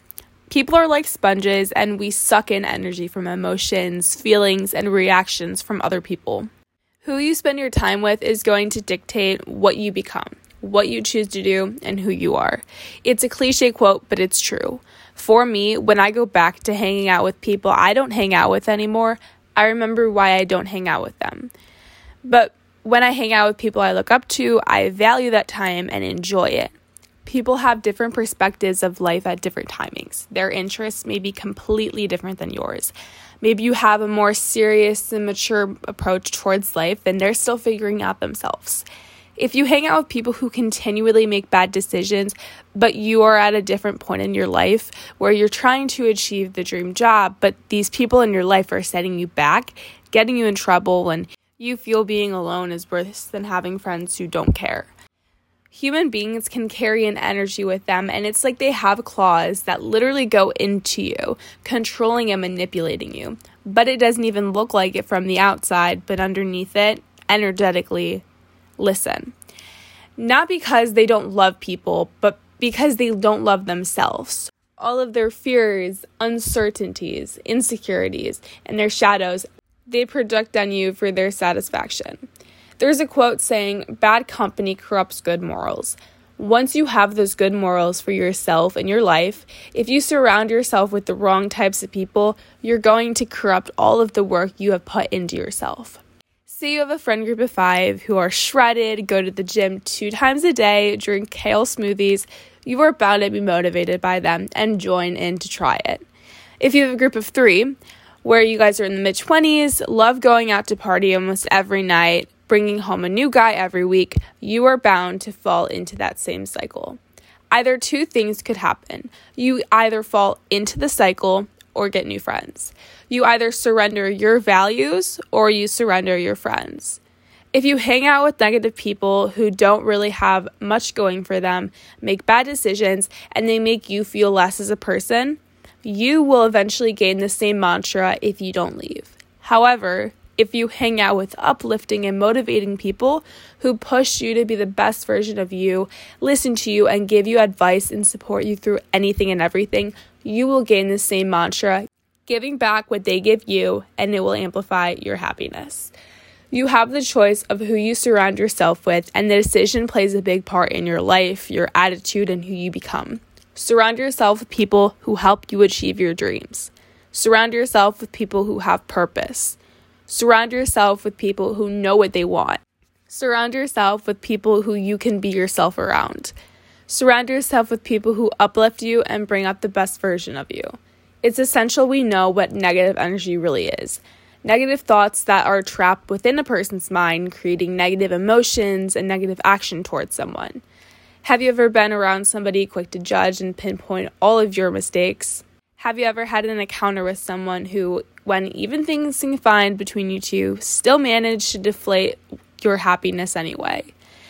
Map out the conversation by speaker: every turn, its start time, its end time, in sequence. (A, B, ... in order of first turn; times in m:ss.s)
0:00.5-0:06.5 A
0:07.0-0:21.5 A
0:22.2-0:26.7 A
0:27.2-0:38.8 A
0:39.4-0:54.9 A
0:55.7-1:08.2 A
1:08.8-1:09.3 A
1:10.2-1:22.2 A
1:22.8-1:46.0 A
1:46.6-1:57.0 A
1:57.5-2:07.0 A
2:07.5-2:35.9 A
2:36.5-2:56.3 A
2:56.9-3:10.6 A
3:11.2-3:23.9 A